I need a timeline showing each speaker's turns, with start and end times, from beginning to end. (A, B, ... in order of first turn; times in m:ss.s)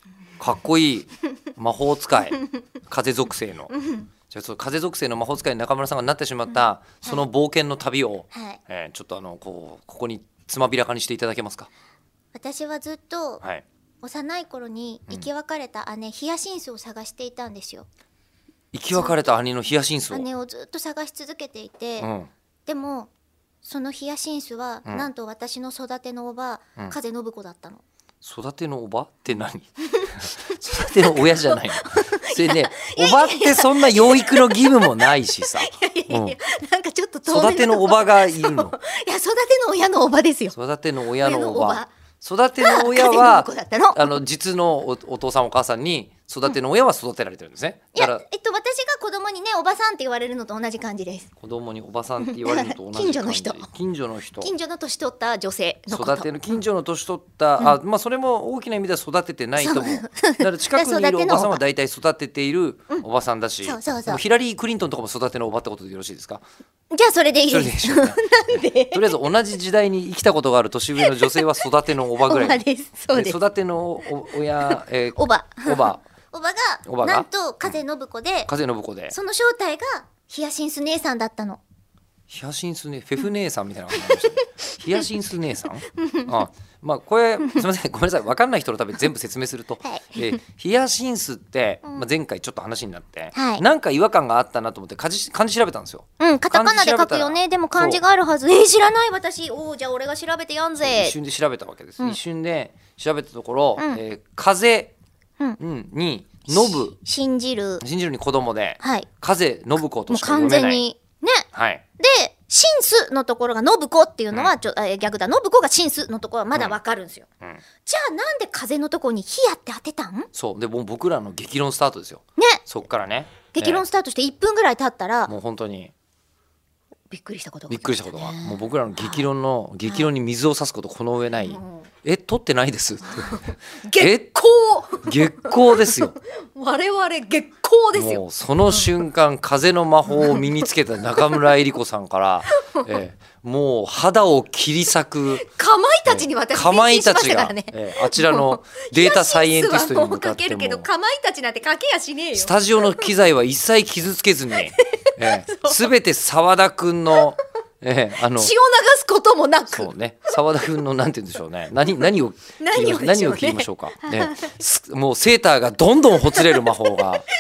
0:00.4-0:03.7 A
0:03.7-0:04.1 B
0:04.3-0:11.7 A
0:06.5-0:07.2 B
0:08.3-0:08.6 B
0:12.3-0:13.4 B
0:14.0-0:17.9 B
0:18.7-0:20.3 A
0:18.9-0:19.2 B
0:20.1-0:22.1 B
0:22.0-0:22.3 A
0:22.7-0:23.1 B
0:23.6-0:27.8 B
0:24.8-0:25.1 A
0:28.2-0:36.4 A
0:30.6-0:40.6 B
0:37.2-0:38.7 A
0:40.5-0:48.2 A
0:41.2-0:41.9 B
0:42.6-0:44.2 B
0:47.9-0:51.3 B
0:51.4-0:54.5 A
0:52.2-0:53.7 B
0:54.4-0:56.3 B
0:55.9-1:06.4 A
0:59.6-1:01.6 B
1:03.6-1:04.2 B
1:06.9-1:09.2 B
1:07.5-1:16.0 A
1:11.0-1:11.5 B
1:12.2-1:13.4 B
1:14.6-1:18.5 B
1:16.8-1:17.8 A
1:18.5-1:19.1 A
1:19.1-1:21.6 B
1:22.3-1:38.0 A
1:24.0-1:24.5 B
1:26.0-1:26.4 B
1:29.8-1:30.4 B
1:31.8-1:32.1 B
1:33.3-1:33.6 B
1:36.2-1:41.2 B
1:40.8-1:44.9 A
1:43.8-1:44.0 B
1:45.6-1:47.0 A
1:46.5-1:47.8 B
1:47.8-1:50.8 A
1:48.8-1:49.1 B
1:50.1-1:51.5 B
1:51.5-1:51.8 A
1:52.0-1:57.2 B
1:56.5-1:56.8 A
1:57.8-2:00.3 B
2:00.3-2:03.8 A
2:03.5-2:05.3 B
2:05.3-2:05.9 A
2:07.1-2:09.3 B
2:07.7-2:14.3 A
2:09.8-2:10.1 B
2:11.4-2:11.9 B
2:13.1-2:19.0 B
2:15.0-2:16.2 A
2:17.9-2:25.4 A
2:20.1-2:21.6 B
2:22.5-2:22.9 B
2:25.4-2:33.1 B
2:26.0-2:30.9 A
2:32.3-2:38.5 A
2:34.5-2:35.9 B
2:38.2-2:40.4 B
2:39.7-2:47.3 A
2:42.6-2:44.6 B
2:46.2-2:47.2 B